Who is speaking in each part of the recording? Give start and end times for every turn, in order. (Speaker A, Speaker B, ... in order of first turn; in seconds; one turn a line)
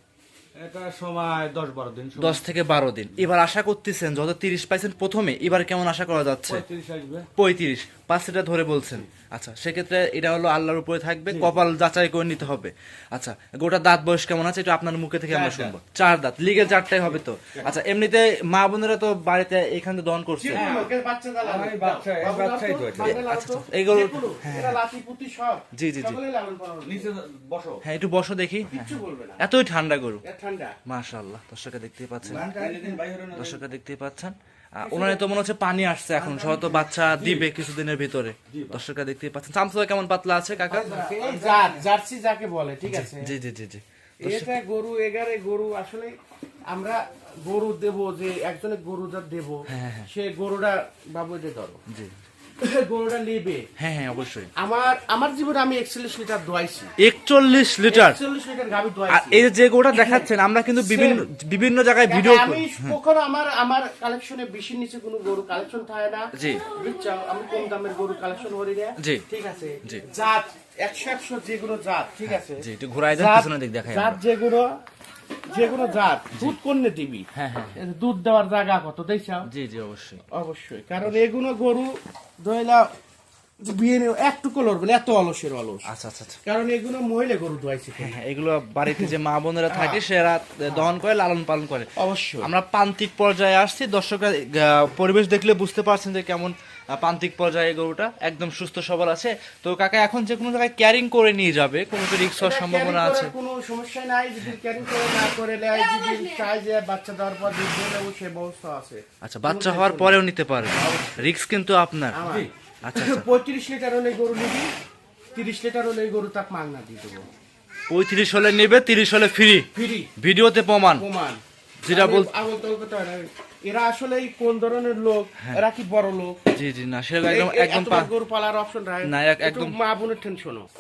Speaker A: 0.5-2.4
Speaker B: 2.2-6.6
Speaker A: 6.5-7.3
Speaker B: 7.4-20.7
Speaker A: 11.3-11.5
Speaker A: 15.3-15.8
Speaker C: 20.4-27.1
Speaker A: 20.5-23.2
Speaker B: 23.0-24.8
Speaker B: 25.7-26.2
Speaker A: 26.8-27.8
Speaker B: 27.8-30.2
Speaker C: 28.7-29.4
Speaker C: 30.2-30.8
Speaker B: 30.9-32.5
Speaker A: 32.2-33.6
Speaker C: 32.3-33.0
Speaker B: 33.3-41.0
Speaker C: 34.8-35.2
Speaker C: 36.2-36.9
Speaker A: 37.1-37.5
Speaker A: 38.5-38.8
Speaker C: 40.7-43.3
Speaker A: 40.9-41.8
Speaker B: 42.9-44.5
Speaker C: 44.2-46.1
Speaker C: 46.7-51.8
Speaker B: 49.7-50.1
Speaker C: 52.6-53.6
Speaker B: 53.8-54.5
Speaker C: 54.6-56.9
Speaker B: 57.0-58.2
Speaker C: 57.9-60.2
Speaker B: 59.1-63.0
Speaker C: 60.8-61.3
Speaker C: 62.1-74.7
Speaker B: 66.3-66.6
Speaker B: 69.0-69.2
Speaker B: 72.2-74.2
Speaker C: 75.5-79.5
Speaker B: 77.3-77.8
Speaker B: 79.5-80.2
Speaker C: 80.3-82.9
Speaker C: 83.6-85.8
Speaker B: 85.9-86.4
Speaker C: 86.5-88.2
Speaker B: 88.0-103.3
Speaker C: 89.7-90.0
Speaker C: 92.0-92.5
Speaker C: 102.4-111.3
Speaker B: 109.2-112.2
Speaker C: 112.1-114.7
Speaker A: 112.2-112.5
Speaker B: 112.8-113.3
Speaker C: 115.3-117.2
Speaker B: 117.9-119.7
Speaker C: 119.7-120.1
Speaker B: 120.2-121.1
Speaker C: 120.9-126.4
Speaker B: 121.8-122.3
Speaker B: 126.5-128.1
Speaker C: 127.2-130.7
Speaker B: 129.0-129.8